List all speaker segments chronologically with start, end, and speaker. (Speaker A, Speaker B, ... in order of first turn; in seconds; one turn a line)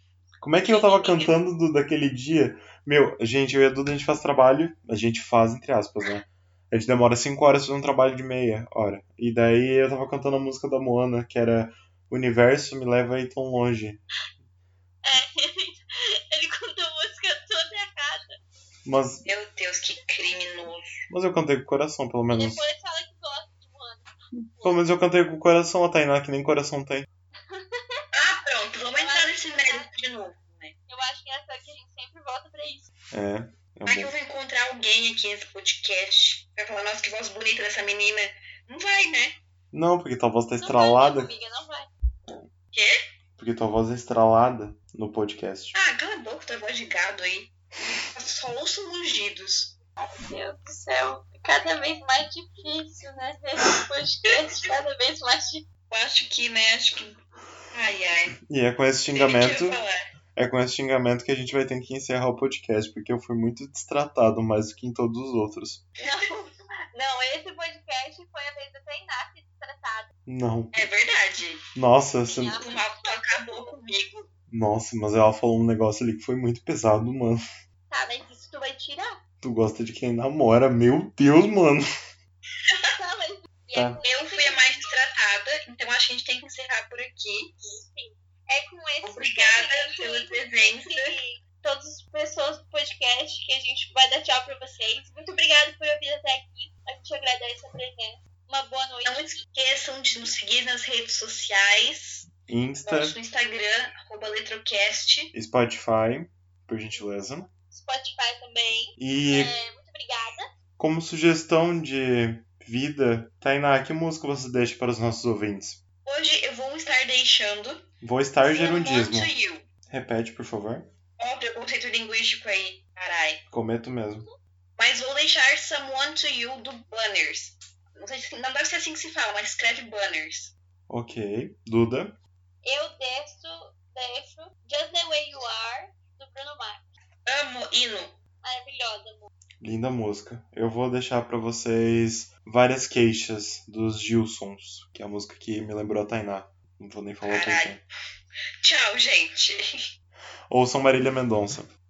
Speaker A: 0.4-14.0
Speaker B: 0.6-1.3
Speaker B: 15.0-18.4
Speaker A: 18.9-19.2
Speaker C: 19.2-21.0
Speaker A: 21.1-22.6
Speaker B: 22.3-24.8
Speaker A: 24.6-27.1
Speaker B: 27.4-28.0
Speaker C: 28.1-30.7
Speaker B: 28.9-29.9
Speaker B: 30.9-32.9
Speaker A: 33.1-34.1
Speaker C: 33.9-39.4
Speaker A: 39.7-41.3
Speaker B: 40.6-41.9
Speaker A: 43.4-45.8
Speaker C: 45.7-47.5
Speaker C: 48.1-49.8
Speaker B: 50.0-55.7
Speaker C: 55.9-57.1
Speaker C: 57.7-58.3
Speaker A: 58.5-59.8
Speaker C: 59.1-60.1
Speaker A: 60.3-65.8
Speaker B: 66.0-66.3
Speaker C: 66.0-66.5
Speaker B: 66.9-70.1
Speaker A: 70.2-70.8
Speaker C: 70.7-71.6
Speaker A: 71.7-72.6
Speaker B: 72.3-73.8
Speaker C: 72.5-74.3
Speaker A: 74.5-77.4
Speaker B: 77.9-79.2
Speaker A: 79.4-81.8
Speaker B: 82.9-84.9
Speaker A: 83.7-84.0
Speaker C: 84.0-87.6
Speaker B: 87.7-99.3
Speaker C: 89.0-91.2
Speaker C: 99.0-102.3
Speaker A: 102.5-103.1
Speaker C: 102.9-105.3
Speaker A: 105.3-107.5
Speaker B: 107.7-110.5
Speaker A: 109.0-109.5
Speaker A: 110.8-115.8
Speaker C: 116.0-117.9
Speaker A: 118.0-119.3
Speaker C: 118.4-119.7
Speaker A: 119.9-120.9
Speaker C: 121.2-123.4
Speaker A: 123.5-124.2
Speaker C: 124.8-130.5
Speaker A: 130.9-132.2
Speaker B: 132.6-136.8
Speaker C: 137.2-138.2
Speaker B: 138.4-139.3
Speaker A: 139.6-147.8
Speaker C: 147.2-147.8
Speaker C: 148.6-149.7
Speaker A: 150.5-151.7